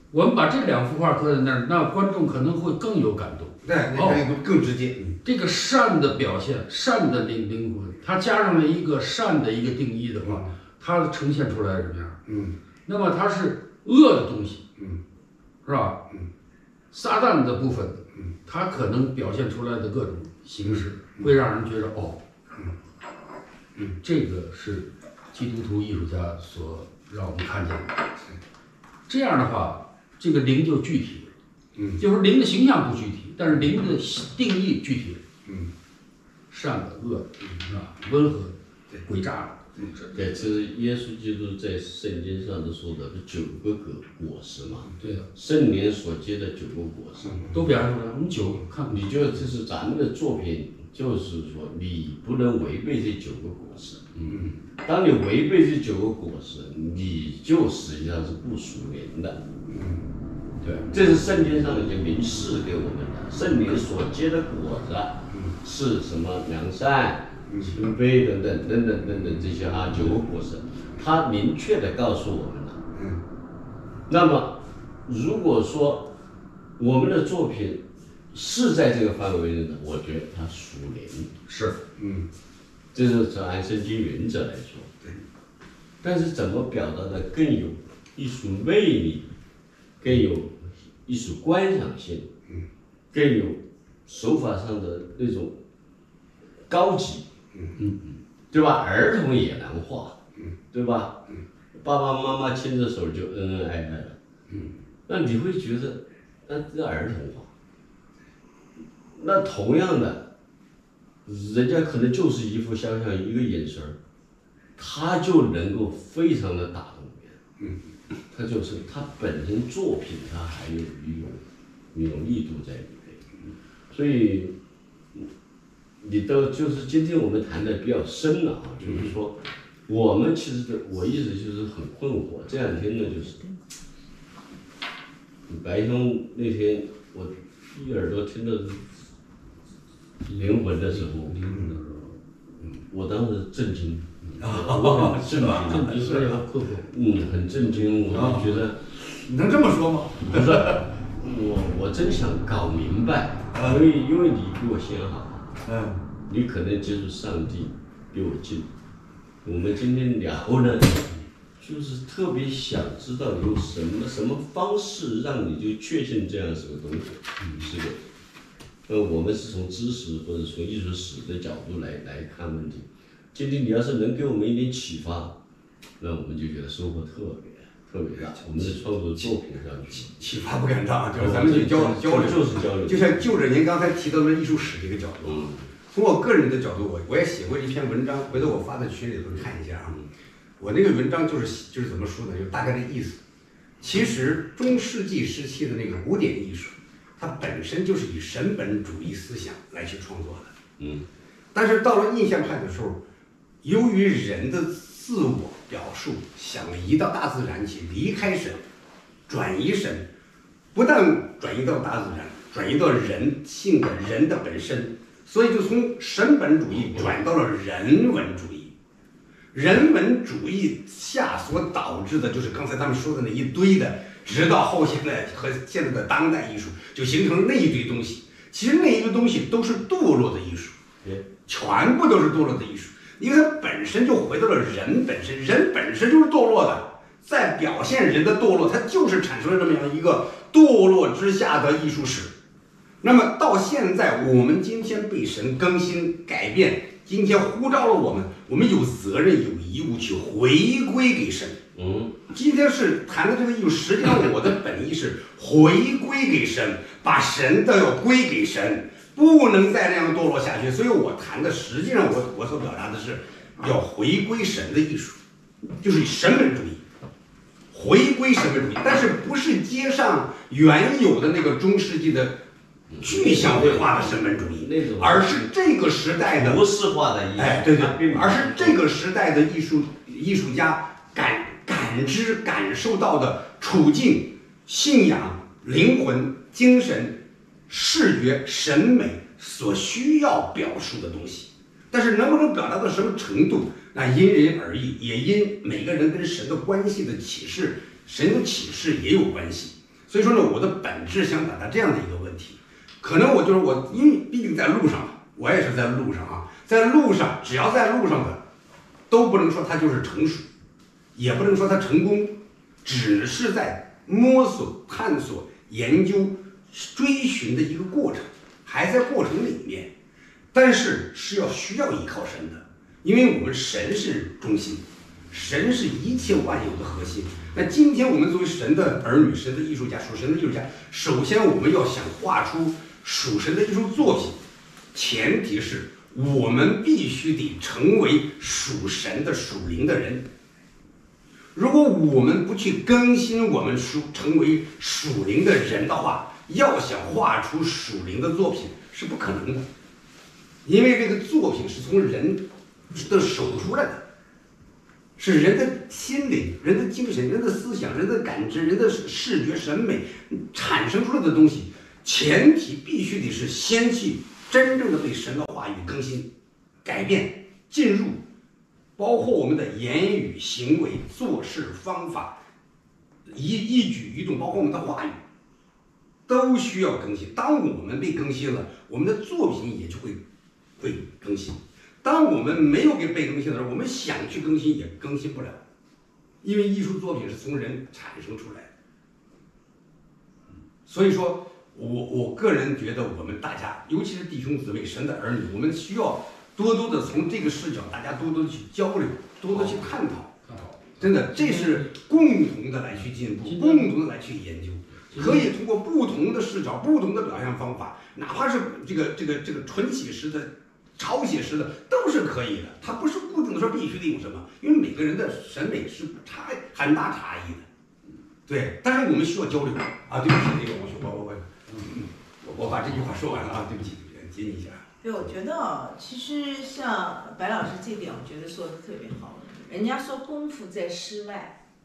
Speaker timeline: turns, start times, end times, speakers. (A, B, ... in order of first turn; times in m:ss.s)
0:00.1-0:04.2 A
0:03.6-0:05.2 B
0:05.2-0:12.2 A
0:10.2-0:10.5 B
0:12.3-0:12.6 B
0:12.9-0:14.6 A
0:15.6-0:16.0 A
0:16.9-0:22.2 A
0:24.0-0:28.1 A
0:29.1-0:31.3 A
0:31.7-0:32.0 B
0:32.0-0:35.2 A
0:36.5-0:40.4 A
0:40.1-0:47.6 C
0:45.0-0:45.3 A
0:47.2-0:47.5 B
0:47.5-0:49.3 A
0:48.9-0:54.1 C
0:54.3-0:54.6 B
0:54.8-0:59.4 C
0:59.7-1:00.0 B
1:00.9-1:12.8 C
1:07.5-1:07.7 B
1:12.9-1:13.2 B
1:14.1-1:16.1 C
1:16.8-1:21.3 C
1:21.4-1:21.8 A
1:22.0-1:22.3 B
1:22.9-1:24.9 C
1:26.0-1:29.3 C
1:30.0-1:32.3 C
1:33.1-1:35.6 C
1:36.7-1:37.3 C
1:38.5-1:40.2 C
1:40.7-1:41.2 C
1:41.7-1:44.2 C
1:45.1-1:47.5 C
1:49.1-1:50.3 C
1:51.2-1:54.0 C
1:54.8-1:57.4 C
1:58.3-2:03.2 C
2:03.9-2:04.6 C
2:06.0-2:13.4 C
2:08.8-2:09.1 B
2:15.5-2:18.9 C
2:20.3-2:20.6 A
2:20.3-2:21.4 C
2:21.3-2:22.8 A
2:21.5-2:21.7 B
2:22.9-2:28.8 C
2:24.4-2:26.3 B
2:25.6-2:26.6 A
2:28.1-2:28.5 B
2:29.0-2:30.9 B
2:30.2-2:35.5 C
2:33.5-2:33.8 B
2:35.6-2:36.0 B
2:36.3-2:38.7 C
2:39.4-2:48.0 C
2:48.9-2:55.3 C
2:56.0-3:00.2 C
2:58.2-2:59.3 B
3:00.1-3:10.0 B
3:01.2-3:03.3 C
3:05.2-3:05.7 C
3:10.6-3:13.2 B
3:13.8-3:20.6 B
3:20.8-3:21.0 C
3:21.5-3:23.0 B
3:23.6-3:28.6 B
3:29.3-3:30.1 B
3:30.7-3:38.7 B
3:39.5-3:50.8 B
3:51.5-4:02.3 B
4:03.0-4:11.6 B
4:11.7-4:12.2 C
4:12.3-4:25.2 B
4:25.8-4:26.8 B
4:27.7-4:32.4 B
4:32.9-4:35.4 C
4:33.0-4:36.6 B
4:36.2-4:38.8 C
4:37.4-5:08.4 B
5:09.1-5:10.5 B
5:11.1-5:19.9 B
5:20.5-5:34.4 B
5:34.9-5:40.2 B
5:41.5-5:49.6 B
5:50.6-5:54.0 B
5:55.2-6:06.3 B
6:06.8-6:08.2 B
6:09.0-6:12.4 B
6:13.3-6:15.2 B
6:16.3-6:20.2 B
6:20.8-6:25.6 B
6:26.4-6:28.7 B
6:30.9-6:57.7 B
6:39.6-6:39.9 A
6:40.5-6:40.7 A
6:41.3-6:41.9 A
6:43.4-6:44.0 A
6:45.1-6:45.5 A
6:58.5-7:04.8 B
7:05.0-7:11.6 D